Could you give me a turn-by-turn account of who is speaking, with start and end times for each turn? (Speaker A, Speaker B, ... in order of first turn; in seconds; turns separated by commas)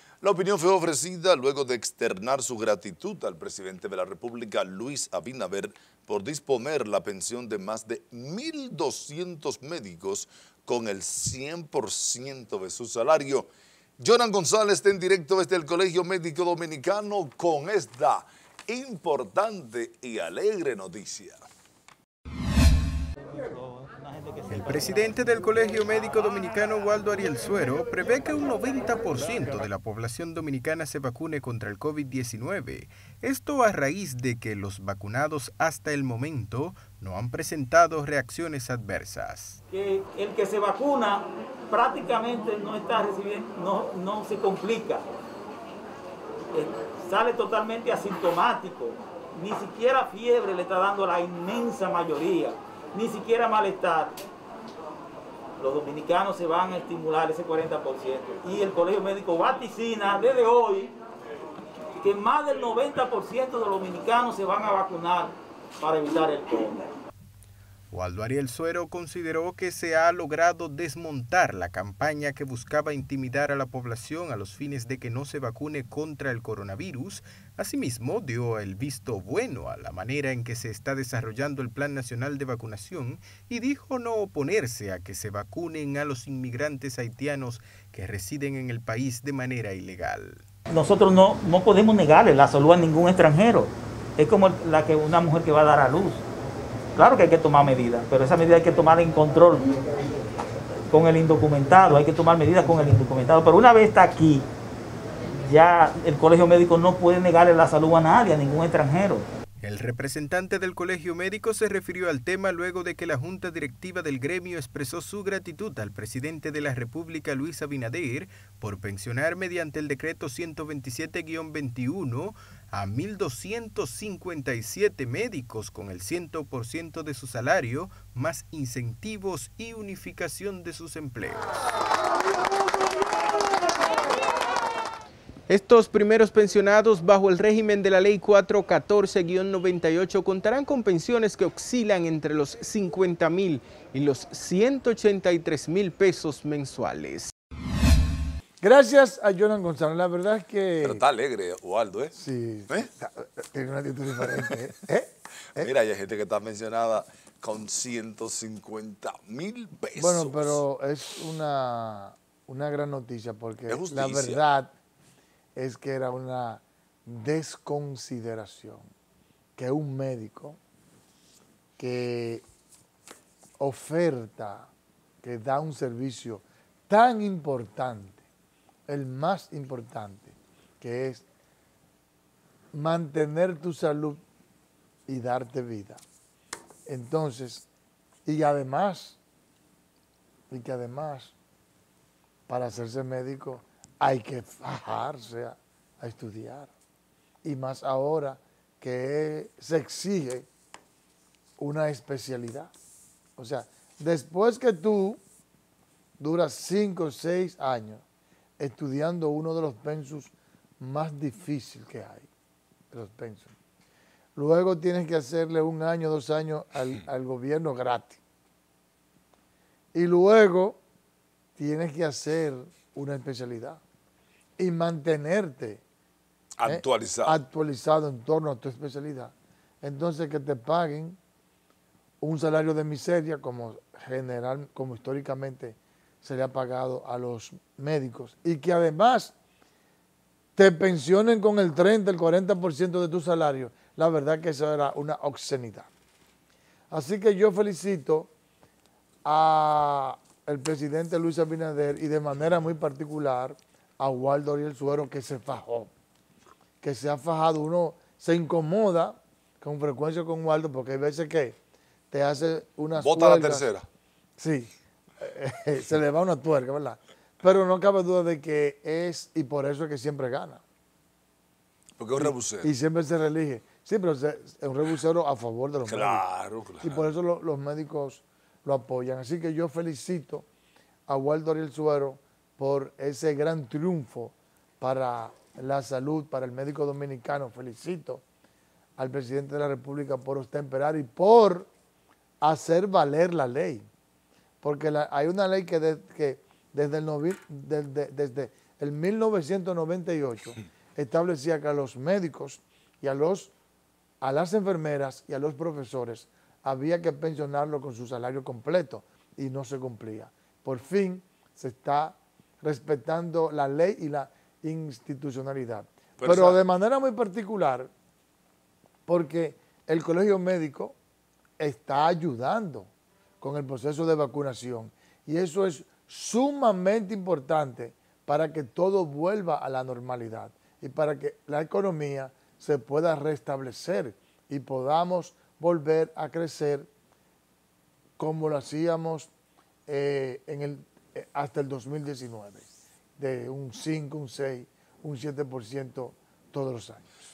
Speaker A: 0.2-13.5, Speaker A: 14.0-21.4, Speaker B: 23.3-25.0, Speaker C: 24.5-39.6, Speaker B: 39.7-45.1, Speaker B: 46.5-54.2, Speaker B: 55.6-60.9, Speaker B: 62.0-66.9, Speaker C: 67.9-90.4, Speaker B: 90.7-96.2, Speaker B: 97.0-99.7, Speaker B: 100.9-104.5, Speaker B: 105.4-109.3, Speaker C: 109.6-131.4, Speaker C: 135.5-147.3, Speaker D: 148.6-151.0, Speaker A: 150.8-152.2, Speaker D: 152.1-155.7, Speaker A: 155.6-160.6, Speaker D: 160.0-164.7, Speaker A: 163.7-164.4, Speaker D: 165.6-168.9, Speaker D: 169.6-170.6, Speaker D: 171.8-172.4, Speaker D: 173.6-174.7, Speaker D: 175.2-178.2, Speaker D: 178.9-181.2, Speaker D: 182.7-184.2, Speaker D: 185.1-186.0, Speaker D: 186.9-187.7, Speaker D: 188.3-189.2, Speaker D: 190.5-191.3, Speaker D: 192.5-196.7, Speaker D: 197.4-200.5, Speaker D: 201.6-202.7, Speaker D: 203.4-205.2, Speaker D: 206.2-208.0, Speaker D: 208.6-212.3, Speaker D: 212.9-213.5, Speaker D: 214.4-218.2, Speaker D: 219.9-220.8, Speaker D: 221.6-223.8, Speaker D: 224.6-225.8, Speaker A: 226.6-227.4, Speaker D: 226.7-231.2, Speaker D: 232.2-239.3, Speaker D: 240.6-245.9, Speaker D: 246.9-248.3, Speaker D: 249.2-255.9, Speaker D: 256.8-261.6, Speaker D: 262.1-263.7, Speaker A: 263.0-263.9, Speaker D: 264.4-270.6, Speaker A: 272.0-272.7, Speaker D: 272.2-276.3, Speaker A: 275.9-277.1, Speaker D: 276.8-280.5, Speaker D: 281.1-288.2, Speaker D: 289.0-291.7, Speaker D: 292.4-293.9, Speaker D: 294.6-303.5, Speaker D: 304.2-317.9, Speaker A: 316.2-316.6, Speaker D: 319.1-321.0, Speaker D: 321.6-322.9, Speaker D: 323.4-336.9, Speaker D: 338.2-339.3, Speaker D: 339.9-342.7, Speaker D: 343.2-347.1